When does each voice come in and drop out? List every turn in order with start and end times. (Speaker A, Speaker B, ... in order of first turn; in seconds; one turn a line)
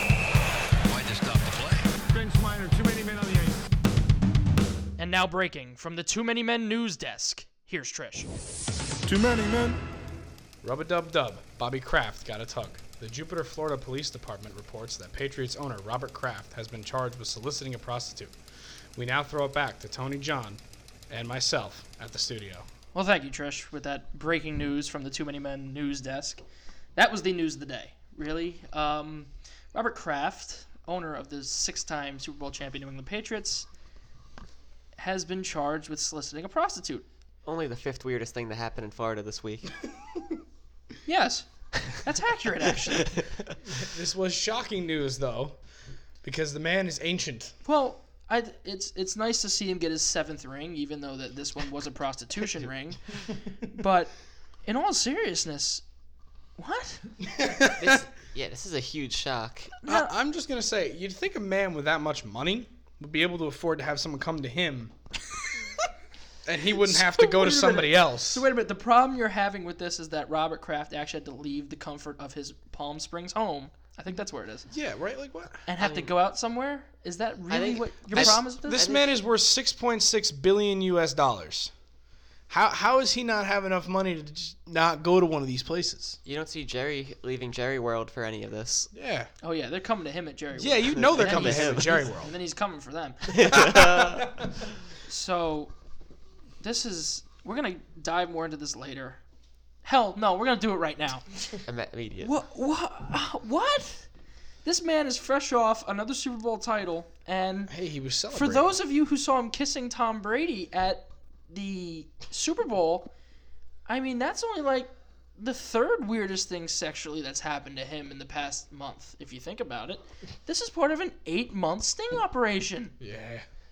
Speaker A: 0.9-3.6
Speaker B: 5.0-8.3
Speaker A: 9.0-9.8
Speaker C: 10.6-18.4
Speaker C: 18.9-22.7
Speaker B: 22.9-26.4
Speaker B: 27.0-33.7
Speaker B: 35.0-37.0
Speaker D: 37.5-39.7
Speaker B: 41.0-43.1
Speaker D: 43.0-43.5
Speaker C: 43.6-45.6
Speaker C: 46.2-47.5
Speaker B: 47.6-53.0
Speaker B: 53.6-55.8
Speaker B: 56.6-57.1
Speaker C: 57.2-58.0
Speaker D: 57.7-59.8
Speaker B: 59.8-60.1
Speaker C: 59.9-64.9
Speaker C: 66.5-68.5
Speaker B: 66.8-74.7
Speaker C: 74.7-75.6
Speaker B: 75.7-78.9
Speaker D: 75.8-76.1
Speaker D: 77.5-79.1
Speaker C: 78.1-81.7
Speaker C: 82.5-86.2
Speaker D: 86.2-88.9
Speaker C: 88.9-89.3
Speaker B: 89.4-93.6
Speaker C: 90.6-92.3
Speaker D: 91.0-92.0
Speaker D: 93.3-94.4
Speaker C: 93.5-94.5
Speaker B: 95.1-95.7
Speaker B: 96.6-99.2
Speaker B: 99.8-101.4
Speaker D: 101.7-102.3
Speaker B: 102.2-104.1
Speaker B: 104.6-107.7
Speaker C: 107.7-108.7
Speaker B: 108.3-113.1
Speaker B: 113.9-123.0
Speaker C: 123.0-123.5